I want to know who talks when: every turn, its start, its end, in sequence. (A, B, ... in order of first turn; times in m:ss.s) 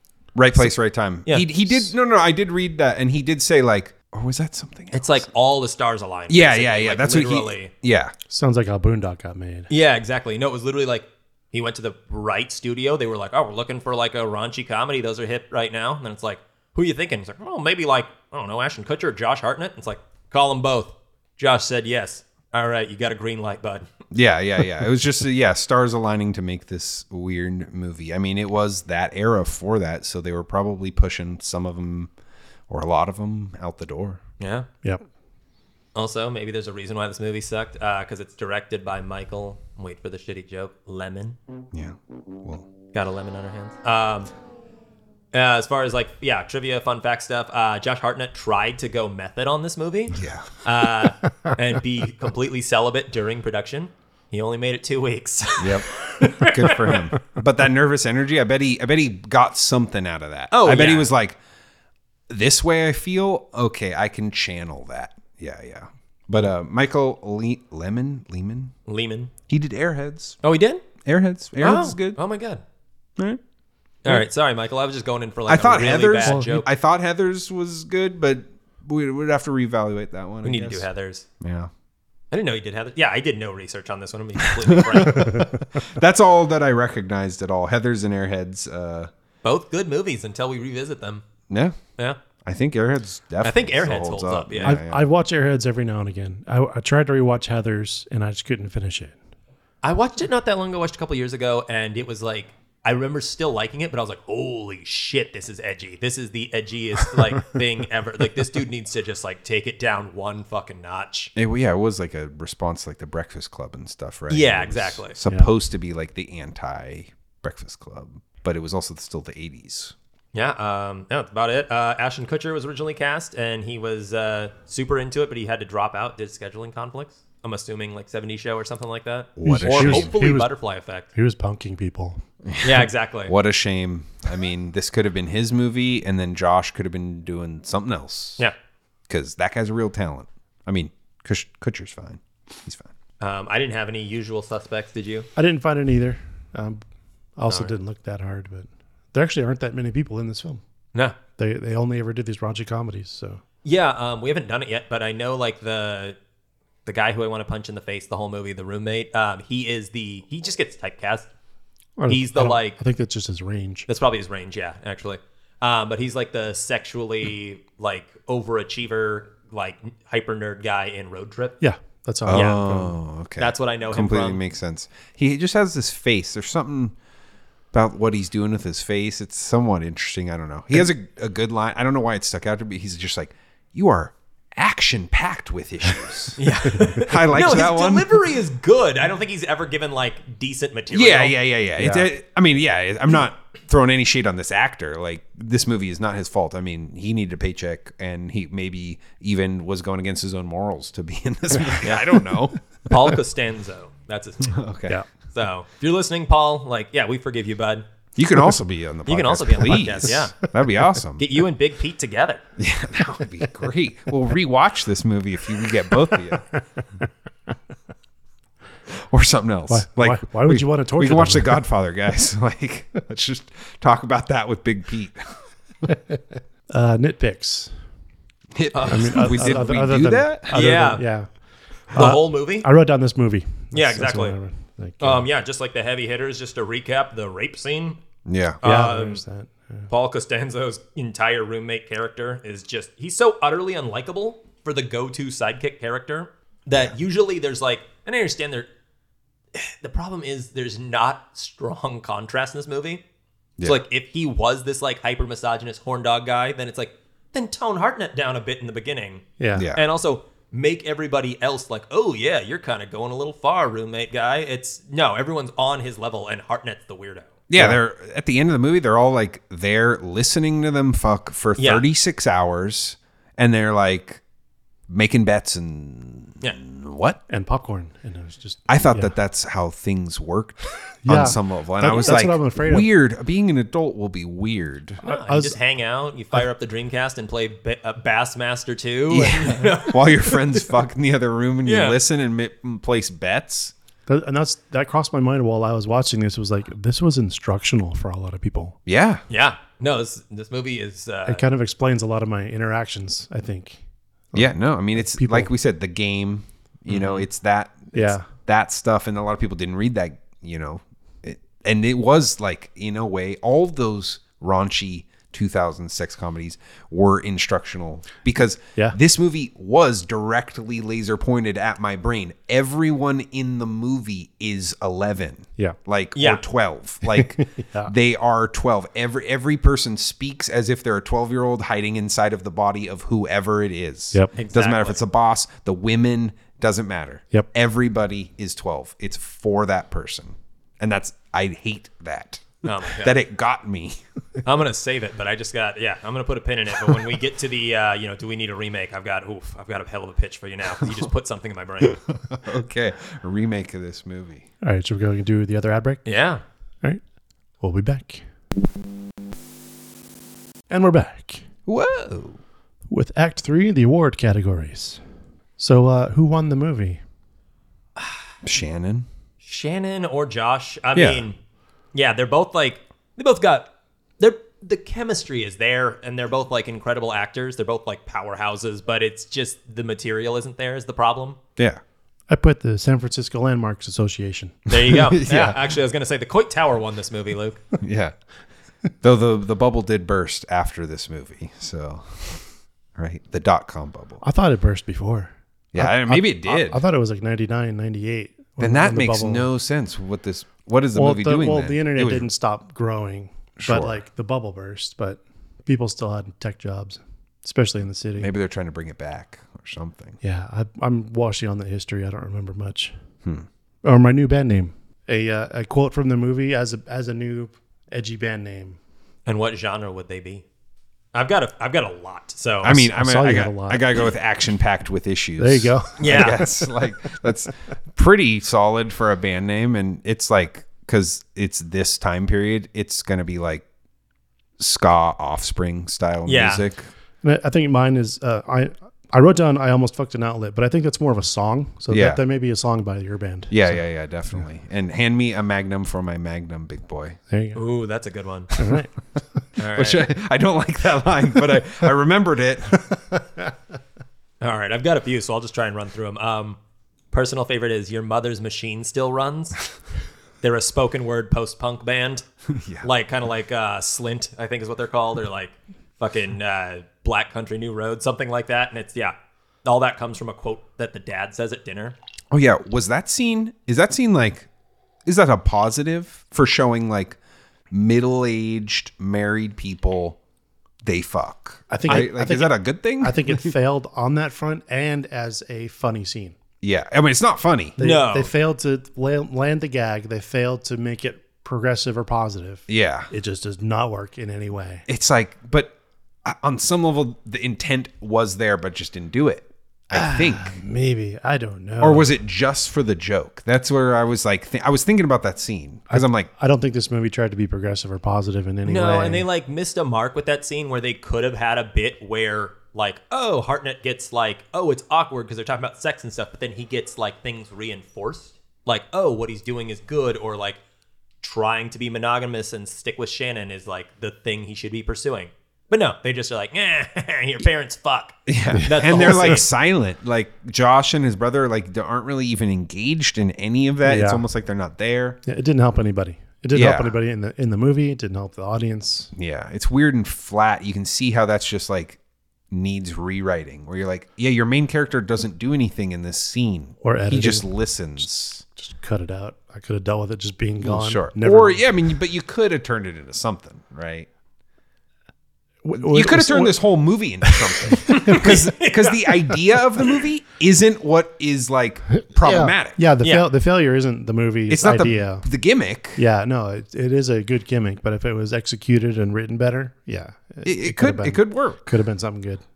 0:00.4-0:05.3 A
0:01.2-0:01.9 B
0:04.9-0:07.7 B
0:06.3-0:08.1 A
0:08.3-0:09.7 C
0:09.7-0:23.9 B
0:24.1-0:32.1 A
0:32.7-0:34.2 A
0:34.4-0:34.7 B
0:36.0-0:41.4 B
0:41.7-0:42.7 A
0:42.9-0:44.3 B
0:45.3-0:57.1 B
0:50.1-0:50.5 A
0:55.6-1:01.4 A
1:00.5-1:01.1 B
1:02.3-1:08.7 A
1:08.9-1:09.3 B
1:09.5-1:10.4 A
1:10.4-1:10.8 B
1:11.0-1:12.2 A
1:11.6-1:12.6 B
1:14.0-1:16.7 B
1:15.5-1:20.9 A
1:20.4-1:21.2 B
1:21.4-1:21.7 A
1:22.3-1:25.5 B
1:24.6-1:29.1 A
1:29.4-1:31.2 B
1:31.5-1:31.8 A
1:32.4-1:35.0 A
1:33.4-1:34.8 B
1:34.6-1:39.2 C
1:39.8-1:51.3 B
1:51.4-2:00.0 A
1:54.3-1:55.2 B
1:55.3-1:55.5 C
2:00.3-2:11.1 B
2:09.4-2:10.2 A
2:09.4-2:10.5 C
2:11.1-2:12.2 C
2:12.5-2:18.4 A
2:12.6-2:13.3 B
2:19.1-2:22.9 A
2:23.2-2:25.3 B
2:25.4-2:26.8 C
2:27.4-2:30.6 C
2:27.5-2:27.7 B
2:31.4-2:33.4 C
2:33.6-2:36.2 B
2:36.9-2:41.3 B
2:42.0-2:43.9 C
2:42.1-2:42.8 B
2:43.9-2:51.6 B
2:51.6-2:52.9 C
2:52.3-2:57.0 A
2:52.3-2:52.7 B
2:53.4-2:54.4 B
2:57.7-3:08.3 A
3:06.4-3:11.4 B
3:10.9-3:22.6 A
3:11.8-3:12.1 C
3:21.8-3:22.2 B
3:22.9-3:24.6 B
3:24.5-3:25.0 A
3:25.3-3:27.9 B
3:28.2-3:31.3 A
3:29.1-3:30.4 B
3:31.2-3:32.4 B
3:32.6-3:36.4 A
3:38.9-3:45.4 A
3:39.7-3:41.6 C
3:46.7-3:47.7 C
3:48.5-3:50.6 A
3:48.7-3:49.6 B
3:48.9-3:51.3 C
3:50.5-3:51.0 B
3:51.9-3:55.3 C
3:51.9-3:52.7 B
3:53.7-3:54.4 B
3:55.0-3:58.0 B
3:58.2-3:58.6 A
3:58.6-3:59.2 B
3:58.6-3:59.9 C
3:59.9-4:08.7 B
4:09.5-4:13.0 B
4:13.6-4:19.2 B
4:19.4-4:19.7 C
4:19.5-4:19.8 A
4:19.8-4:27.3 B
4:27.5-4:34.2 A
4:31.6-4:31.9 B
4:34.9-4:37.2 A
4:37.3-4:39.1 C
4:38.7-4:45.0 A
4:41.0-4:42.9 C
4:45.0-4:45.6 C
4:45.0-4:50.7 B
4:49.1-4:53.7 A
4:51.6-4:52.0 B
4:54.1-4:58.8 C
4:58.9-4:59.2 A
4:59.3-5:01.4 B
5:01.3-5:03.8 C
5:04.3-5:05.5 C
5:04.3-5:44.0 A
5:06.9-5:07.3 B
5:07.9-5:08.3 C
5:26.2-5:26.4 B
5:27.1-5:27.9 C
5:34.4-5:35.0 B
5:42.6-5:43.2 B
5:44.4-5:52.0 B
5:51.8-5:54.5 A
5:54.6-5:56.1 C
5:56.1-5:56.4 B
5:57.6-5:58.2 C
6:00.7-6:01.4 C
6:01.7-6:02.4 A
6:02.9-6:05.0 C
6:05.6-6:07.0 C
6:08.4-6:09.1 A
6:09.4-6:11.4 B
6:10.9-6:11.2 A
6:11.9-6:21.4 B
6:22.3-6:24.6 C
6:24.7-6:27.6 B
6:24.7-6:25.7 A
6:27.8-6:28.2 A
6:29.0-6:32.4 A
6:33.0-6:34.2 A
6:34.2-6:39.5 C
6:35.7-6:36.8 A
6:38.6-6:42.3 A
6:41.0-6:48.3 C
6:43.6-6:44.0 A
6:48.2-6:50.2 A
6:50.2-6:53.0 C
6:53.8-6:58.8 C
6:59.3-7:00.4 B
7:01.1-7:02.9 B
7:02.6-7:13.6 A
7:02.7-7:04.0 C
7:05.4-7:06.6 C
7:06.0-7:06.4 B
7:14.6-7:16.9 A
7:16.3-7:16.6 B
7:17.2-7:23.8 C
7:21.9-7:22.2 A
7:23.5-7:27.2 A
7:27.3-7:27.6 C
7:27.6-7:28.5 B
7:28.6-7:28.9 C
7:29.6-7:30.0 B
7:29.7-7:33.0 A
7:34.4-7:36.6 B
7:37.1-7:39.6 B
7:40.4-7:42.2 B
7:42.5-7:42.9 A
7:42.8-7:52.0 B
7:52.3-7:54.5 A
7:55.0-7:57.2 A
7:57.7-8:00.2 A
8:00.8-8:03.5 A
8:01.7-8:06.4 C
8:06.6-8:07.8 A
8:07.8-8:14.8 C
8:07.8-8:08.3 B
8:12.7-8:13.1 A
8:14.9-8:15.7 A
8:16.2-8:20.6 A
8:19.9-8:22.1 C
8:21.8-8:26.3 A
8:25.9-8:29.3 C
8:28.6-8:40.6 B
8:41.2-8:49.5 B
8:48.3-8:55.2 A
8:48.5-8:49.1 C
8:53.8-8:54.2 C
8:55.3-8:59.1 C
8:56.5-8:57.0 A
8:59.1-9:02.0 A
9:02.5-9:08.4 A
9:06.8-9:11.6 C
9:10.6-9:14.1 A
9:15.6-9:16.6 C
9:15.8-9:22.8 A
9:17.2-9:18.3 C
9:17.9-9:19.1 B
9:22.0-9:25.3 C
9:24.5-9:26.0 A
9:26.0-9:32.4 C
9:30.4-9:31.7 A